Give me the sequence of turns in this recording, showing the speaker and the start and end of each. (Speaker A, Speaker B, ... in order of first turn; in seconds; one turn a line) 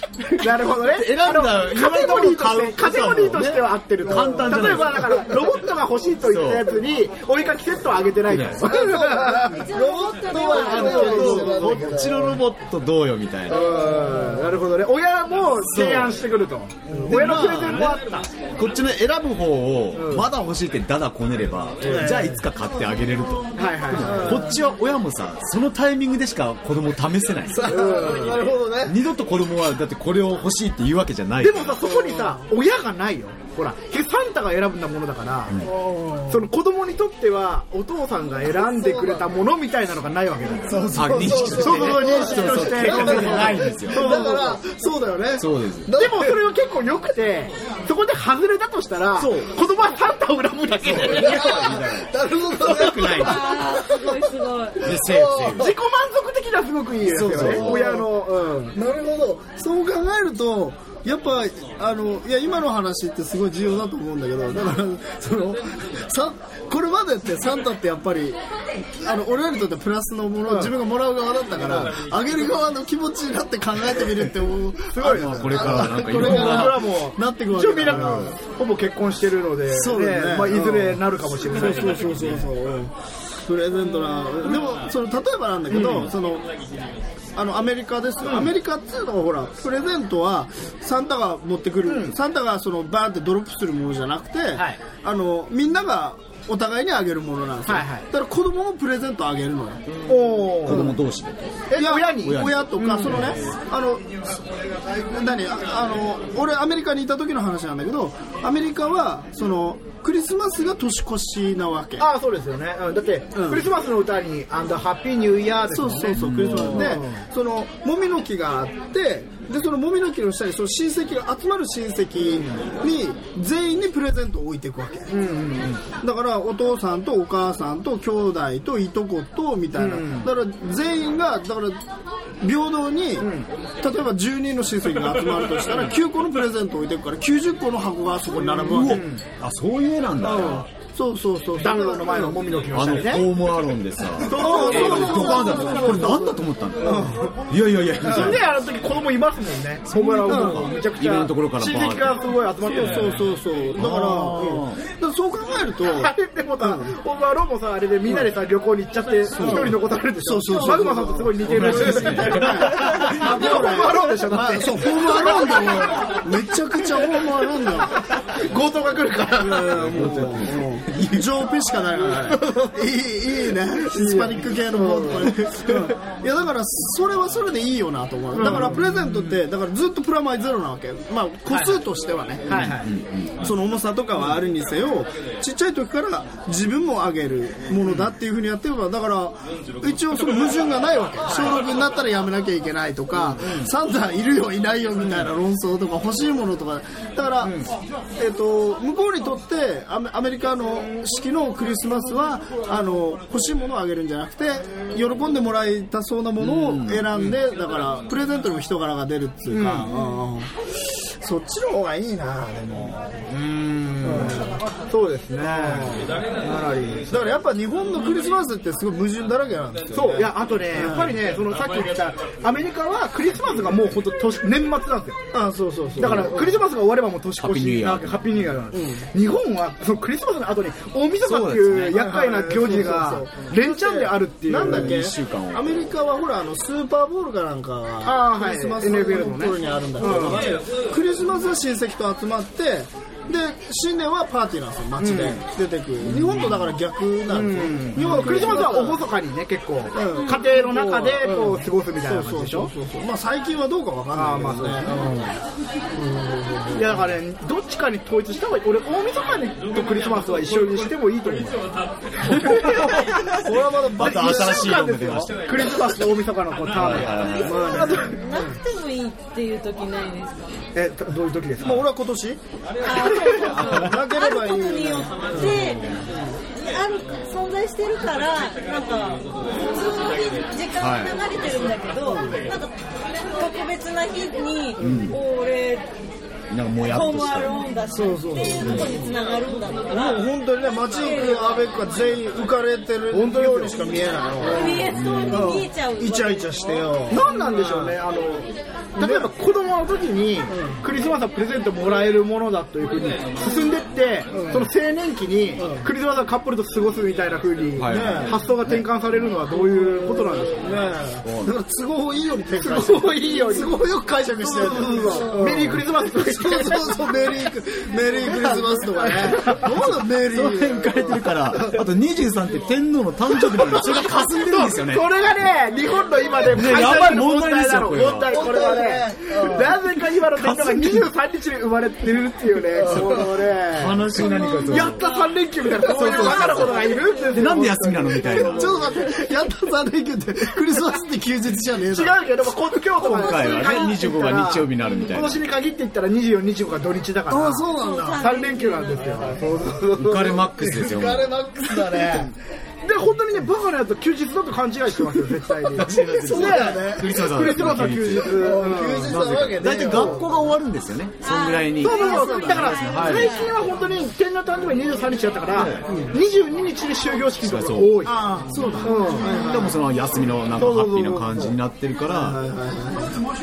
Speaker A: 0.3-9.6
Speaker B: 0.8-5.4
Speaker B: 6.2-6.7
Speaker B: 8.3-8.7
Speaker C: 8.6-12.4
Speaker D: 9.4-11.5
Speaker A: 10.4-11.8
Speaker B: 10.6-13.8
Speaker A: 13.5-18.3
Speaker B: 15.6-16.1
Speaker C: 16.9-17.9
Speaker B: 17.1-28.0
Speaker A: 19.9-20.3
Speaker C: 21.8-22.4
Speaker A: 23.6-24.5
Speaker C: 24.0-24.5
Speaker C: 27.6-29.0
Speaker A: 27.6-28.4
Speaker B: 28.9-31.8
Speaker A: 31.4-35.6
Speaker C: 31.8-32.4
Speaker C: 35.6-36.5
Speaker A: 36.3-44.6
Speaker C: 38.5-39.3
Speaker C: 40.7-46.4
Speaker B: 40.8-44.1
Speaker B: 45.4-45.9
Speaker A: 45.9-51.8
Speaker B: 49.1-49.5
Speaker B: 50.9-53.4
Speaker C: 51.0-54.2
Speaker A: 52.6-53.4
Speaker D: 53.2-54.9
Speaker B: 54.8-55.8
Speaker C: 54.9-55.7
Speaker A: 55.3-58.8
Speaker B: 57.1-58.0
Speaker C: 57.2-58.1
Speaker C: 58.7-78.4
Speaker A: 70.5-70.7
Speaker A: 74.9-82.1
Speaker B: 75.0-76.8
Speaker B: 77.9-78.3
Speaker C: 79.7-86.5
Speaker A: 85.7-86.1
Speaker C: 87.3-99.8
Speaker A: 88.2-88.5
Speaker A: 91.9-92.1
Speaker A: 97.7-98.0
Speaker B: 99.9-101.6
Speaker A: 100.1-100.9
Speaker C: 100.7-101.0
Speaker A: 101.7-103.3
Speaker C: 101.8-104.4
Speaker B: 102.2-103.5
Speaker C: 104.9-112.1
Speaker A: 112.0-117.2
Speaker C: 113.3-113.7
Speaker C: 115.7-125.1
Speaker B: 116.2-116.8
Speaker A: 122.3-122.6
Speaker A: 125.1-125.8
Speaker C: 126.0-131.8
Speaker A: 129.8-130.3
Speaker C: 132.4-133.3
Speaker A: 133.2-133.5
Speaker C: 133.8-139.1
Speaker B: 138.7-140.7
Speaker A: 138.8-139.2
Speaker C: 140.2-142.4
Speaker A: 141.6-143.3
Speaker B: 142.7-148.5
Speaker A: 144.2-146.2
Speaker C: 144.2-147.1
Speaker A: 146.8-147.4
Speaker A: 148.0-153.2
Speaker B: 149.9-152.2
Speaker C: 150.2-150.7
Speaker C: 152.7-157.0
Speaker B: 153.8-154.8
Speaker A: 155.9-166.2
Speaker C: 159.3-168.0
Speaker B: 161.5-162.8
Speaker A: 166.9-167.3
Speaker A: 168.0-170.1
Speaker C: 169.4-182.7
Speaker B: 169.9-171.2
Speaker A: 172.1-172.8
Speaker A: 173.8-175.9
Speaker A: 178.3-179.4
Speaker A: 181.5-181.8
Speaker A: 182.5-182.9
Speaker B: 182.5-183.4
Speaker C: 183.4-197.6
Speaker A: 191.3-191.6
Speaker A: 193.3-193.7
Speaker A: 197.4-197.7
Speaker C: 198.2-213.3
Speaker B: 206.4-207.2
Speaker A: 209.5-210.0
Speaker A: 213.3-217.2
Speaker C: 214.0-214.4
Speaker C: 215.4-216.2
Speaker C: 217.1-221.2
Speaker A: 219.9-225.2
Speaker C: 225.3-226.6
Speaker A: 226.0-235.0
Speaker B: 227.4-228.4
Speaker C: 228.7-229.1
Speaker B: 231.2-232.1
Speaker C: 231.9-249.1
Speaker B: 234.6-235.8
Speaker A: 238.0-240.6
Speaker A: 245.0-245.4
Speaker A: 247.3-252.7
Speaker C: 249.9-255.3
Speaker A: 254.2-255.3
Speaker C: 255.9-257.1
Speaker A: 256.7-261.6
Speaker A: 262.2-268.2
Speaker C: 262.3-264.8
Speaker B: 263.7-265.7
Speaker B: 266.7-267.8
Speaker D: 267.0-270.5
Speaker C: 267.4-268.6
Speaker A: 270.8-271.8
Speaker C: 271.6-272.4
Speaker D: 272.8-276.0
Speaker A: 273.1-273.7
Speaker C: 273.4-276.4
Speaker A: 275.3-275.7
Speaker D: 276.5-285.9
Speaker B: 280.8-281.1
Speaker C: 282.1-282.5
Speaker B: 284.8-285.2
Speaker B: 286.5-287.6
Speaker D: 286.9-290.3
Speaker C: 287.9-289.1
Speaker B: 288.6-289.0
Speaker C: 289.9-298.0
Speaker D: 290.8-291.7
Speaker A: 293.1-293.8
Speaker A: 294.4-294.8
Speaker D: 294.4-297.5
Speaker B: 294.9-295.6
Speaker A: 297.1-310.7
Speaker C: 299.0-299.3
Speaker C: 300.5-300.8
Speaker C: 304.3-304.7
Speaker C: 305.6-305.9
Speaker B: 307.8-308.9
Speaker C: 307.9-308.4
Speaker C: 309.6-321.7
Speaker B: 311.2-311.6
Speaker A: 312.6-313.8
Speaker A: 314.4-317.4
Speaker A: 318.3-319.8
Speaker B: 319.6-325.1
Speaker A: 323.5-338.8
Speaker B: 326.4-328.7
Speaker C: 328.3-330.8
Speaker B: 330.3-331.1
Speaker C: 332.7-333.4
Speaker B: 332.9-335.1
Speaker D: 334.1-337.5
Speaker B: 335.8-338.9
Speaker C: 338.3-342.2
Speaker A: 341.9-347.7
Speaker B: 343.0-345.4
Speaker D: 343.0-344.0
Speaker D: 344.8-345.2
Speaker C: 347.3-348.3
Speaker D: 347.6-349.3
Speaker A: 348.2-350.7
Speaker C: 349.0-349.5
Speaker B: 349.9-351.3
Speaker C: 350.7-352.3
Speaker A: 351.8-352.3
Speaker A: 352.8-359.2
Speaker B: 355.7-362.1
Speaker C: 355.8-360.3
Speaker A: 359.9-360.2
Speaker D: 361.2-363.6
Speaker A: 361.8-368.1
Speaker C: 362.0-362.9
Speaker B: 362.8-363.3
Speaker B: 365.5-365.9
Speaker C: 365.9-366.2
Speaker B: 367.4-368.1
Speaker C: 368.0-369.8
Speaker A: 368.8-369.4
Speaker B: 369.2-372.4
Speaker A: 370.6-371.6
Speaker C: 372.1-373.2